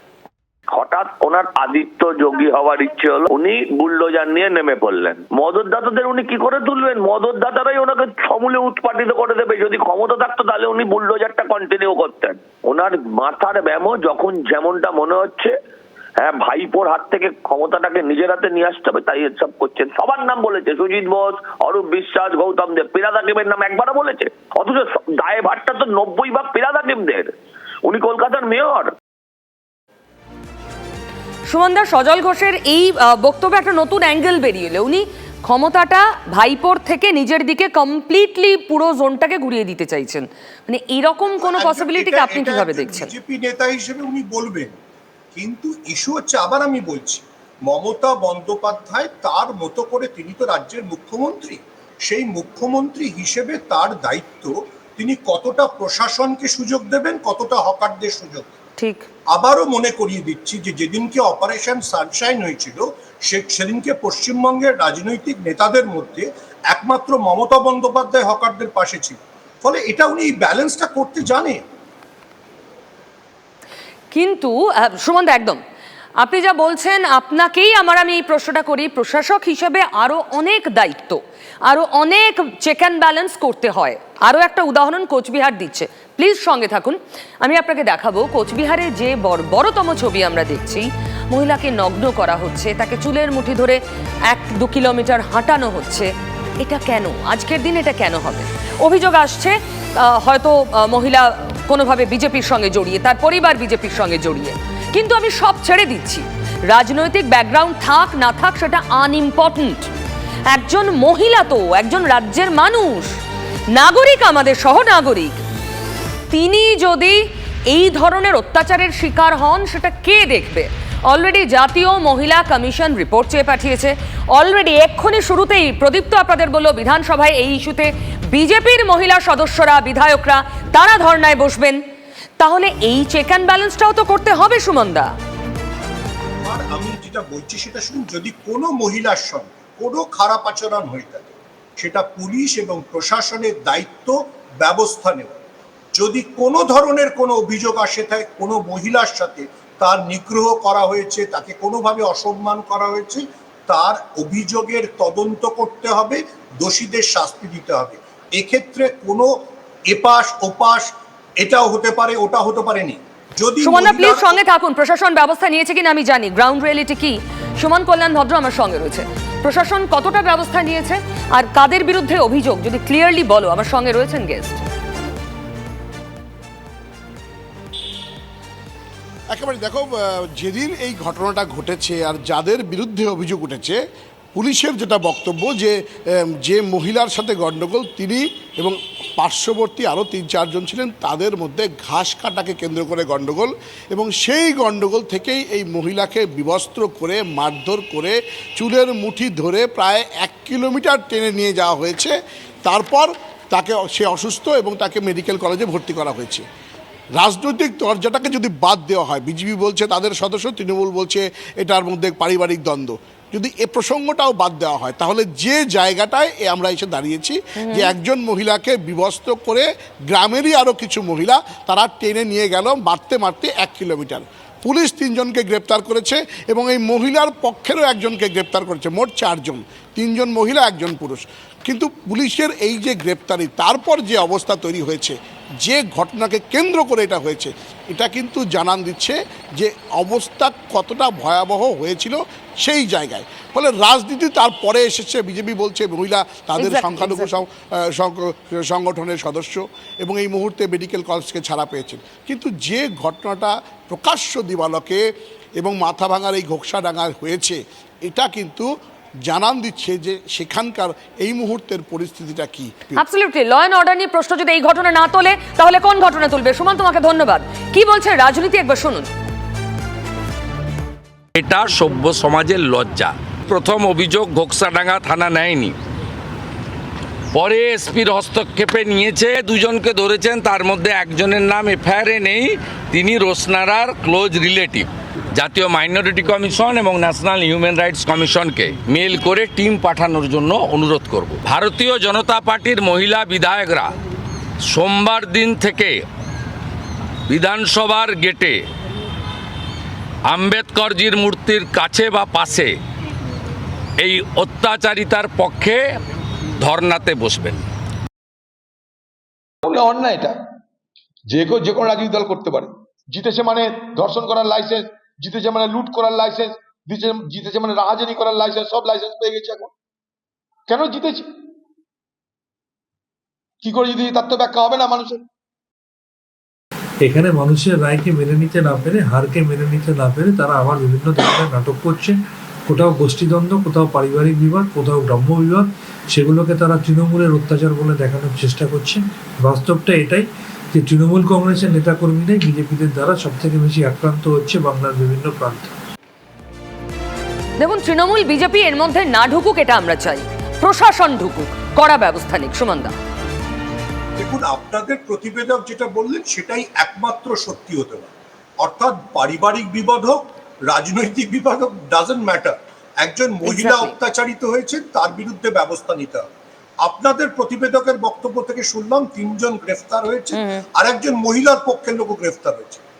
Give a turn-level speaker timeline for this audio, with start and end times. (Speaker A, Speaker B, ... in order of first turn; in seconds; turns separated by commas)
Speaker A: 0.7-15.5, Speaker A: 16.2-27.3, Speaker A: 27.9-28.9, Speaker B: 31.5-43.1, Speaker C: 41.3-44.7, Speaker C: 45.3-58.5, Speaker B: 58.8-59.0, Speaker C: 59.3-71.6, Speaker B: 74.1-75.6, Speaker B: 76.2-93.8, Speaker B: 94.3-96.1, Speaker B: 96.6-109.9, Speaker B: 110.5-113.1, Speaker B: 113.7-115.4, Speaker B: 116.3-131.8, Speaker B: 132.4-135.1, Speaker C: 136.4-145.4, Speaker C: 145.9-164.4, Speaker B: 163.6-174.6, Speaker D: 179.3-183.8, Speaker D: 184.3-206.4, Speaker D: 207.2-255.0, Speaker B: 217.6-217.9, Speaker B: 246.6-247.3, Speaker D: 255.6-258.7, Speaker D: 259.2-263.0, Speaker B: 263.0-269.1, Speaker E: 271.4-275.7, Speaker E: 277.3-293.9, Speaker E: 294.7-296.0, Speaker E: 297.3-298.6, Speaker E: 300.3-302.7, Speaker E: 304.0-305.8, Speaker E: 306.6-307.6, Speaker F: 309.6-310.4, Speaker F: 311.3-319.7, Speaker F: 320.7-321.3, Speaker F: 323.6-325.2, Speaker G: 327.0-345.7, Speaker B: 347.6-352.9, Speaker C: 354.2-366.3, Speaker B: 363.4-363.9, Speaker C: 366.8-372.8, Speaker B: 370.3-370.6